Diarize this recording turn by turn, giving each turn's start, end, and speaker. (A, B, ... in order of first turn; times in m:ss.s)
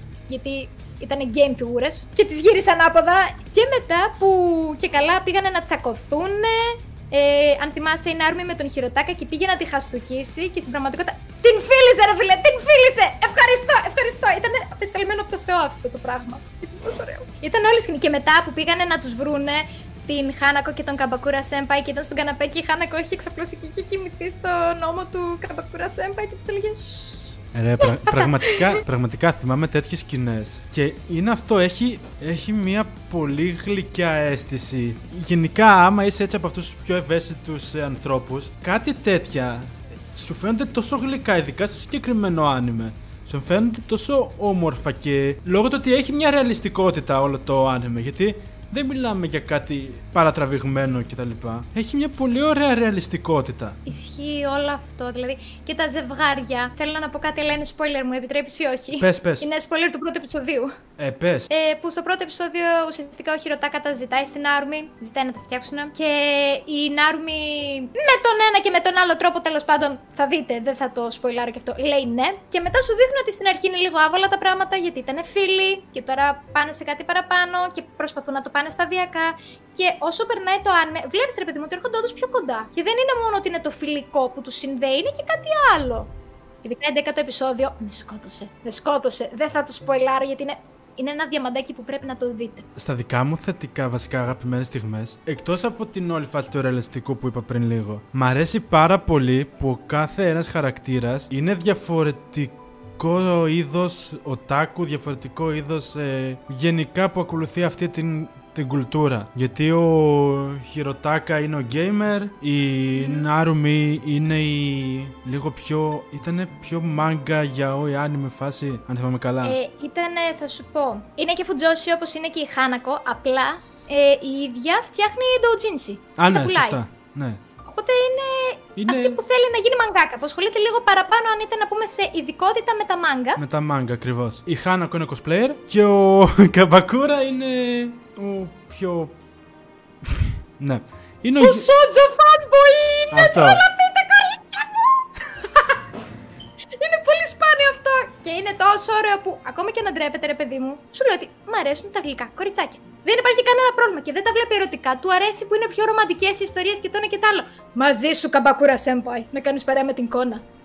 0:00.3-0:28.8 A
0:27.5-0:53.8 B
0:53.9-1:00.8 A
0:59.0-0:59.5 B
1:01.0-1:01.5 B
1:01.5-1:26.1 A
1:26.6-1:32.7 A
1:32.8-1:59.6 B
1:53.0-1:53.2 A
1:59.4-2:06.8 A
2:06.2-2:07.4 B
2:07.6-2:13.4 A
2:08.8-2:09.2 B
2:13.4-2:19.1 B
2:20.0-2:21.7 B
2:21.4-2:25.0 A
2:23.1-2:23.6 B
2:26.8-2:40.4 A